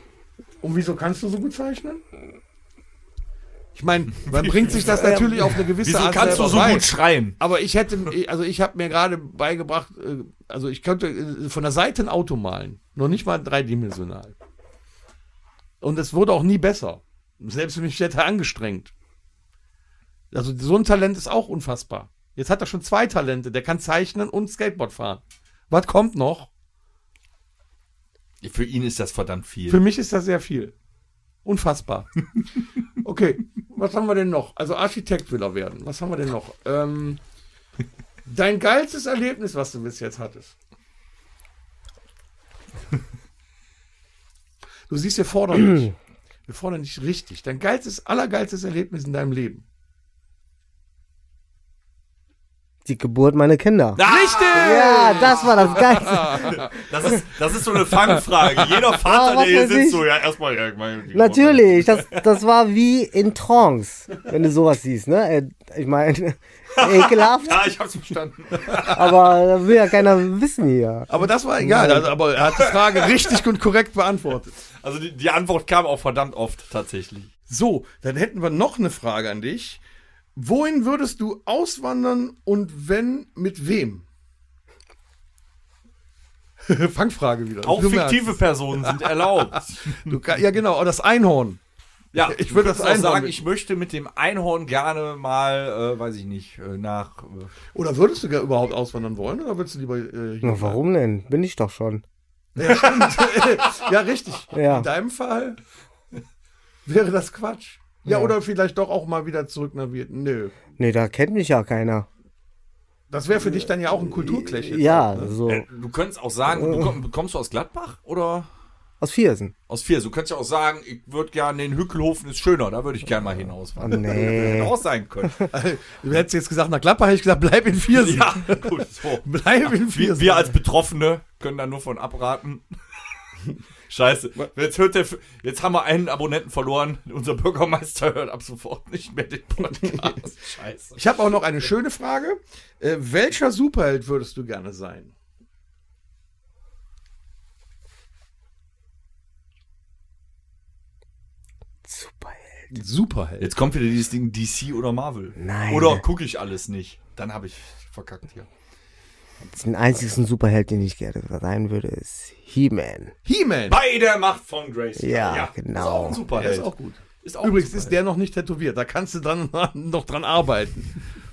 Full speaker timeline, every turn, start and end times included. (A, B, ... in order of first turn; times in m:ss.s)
0:00.6-0:02.0 A
0:03.8-0:14.4 A
0:04.2-0:05.0 B
0:05.0-0:05.5 C
0:05.8-0:07.4 B
0:06.2-0:06.7 C
0:15.8-0:18.9 A
0:20.3-0:26.5 A
0:28.4-0:29.8 B
0:29.7-0:30.7 A
0:31.4-0:32.1 A
0:33.0-0:37.2 A
0:38.3-0:40.5 A
0:44.9-0:45.9 A
0:45.6-0:45.9 C
0:46.5-0:49.6 A
0:52.8-0:56.6 C
0:54.0-1:02.3 B
0:54.0-0:56.7 A
0:59.0-1:00.0 C
1:01.1-1:07.7 C
1:06.7-1:09.0 B
1:08.8-1:12.2 C
1:11.1-1:14.6 A
1:14.8-1:17.3 B
1:17.5-1:19.8 A
1:20.4-1:24.0 A
1:26.6-1:31.6 A
1:27.6-1:30.2 B
1:32.1-1:37.5 B
1:32.2-1:33.4 A
1:37.7-1:40.8 A
1:40.4-1:42.0 C
1:42.6-1:45.6 A
1:44.5-1:44.9 C
1:46.9-1:50.6 A
1:48.1-1:48.3 C
1:50.8-1:52.1 C
1:53.1-1:55.4 A
1:54.1-1:55.7 C
1:55.5-1:58.5 B
1:56.5-1:56.9 C
1:59.0-1:59.5 C
1:59.7-2:05.5 B
2:03.8-2:04.7 C
2:05.5-2:10.5 A
2:07.9-2:12.7 B
2:13.9-2:21.2 B
2:19.8-2:20.1 A
2:21.0-2:25.1 A
2:31.8-2:32.7 C
2:32.7-2:33.5 A
2:33.4-2:38.5 B
2:35.4-2:36.0 C
2:39.5-2:43.1 C
2:43.3-2:43.8 A
2:43.7-2:48.0 B
2:45.0-2:46.2 C
2:46.4-2:50.9 A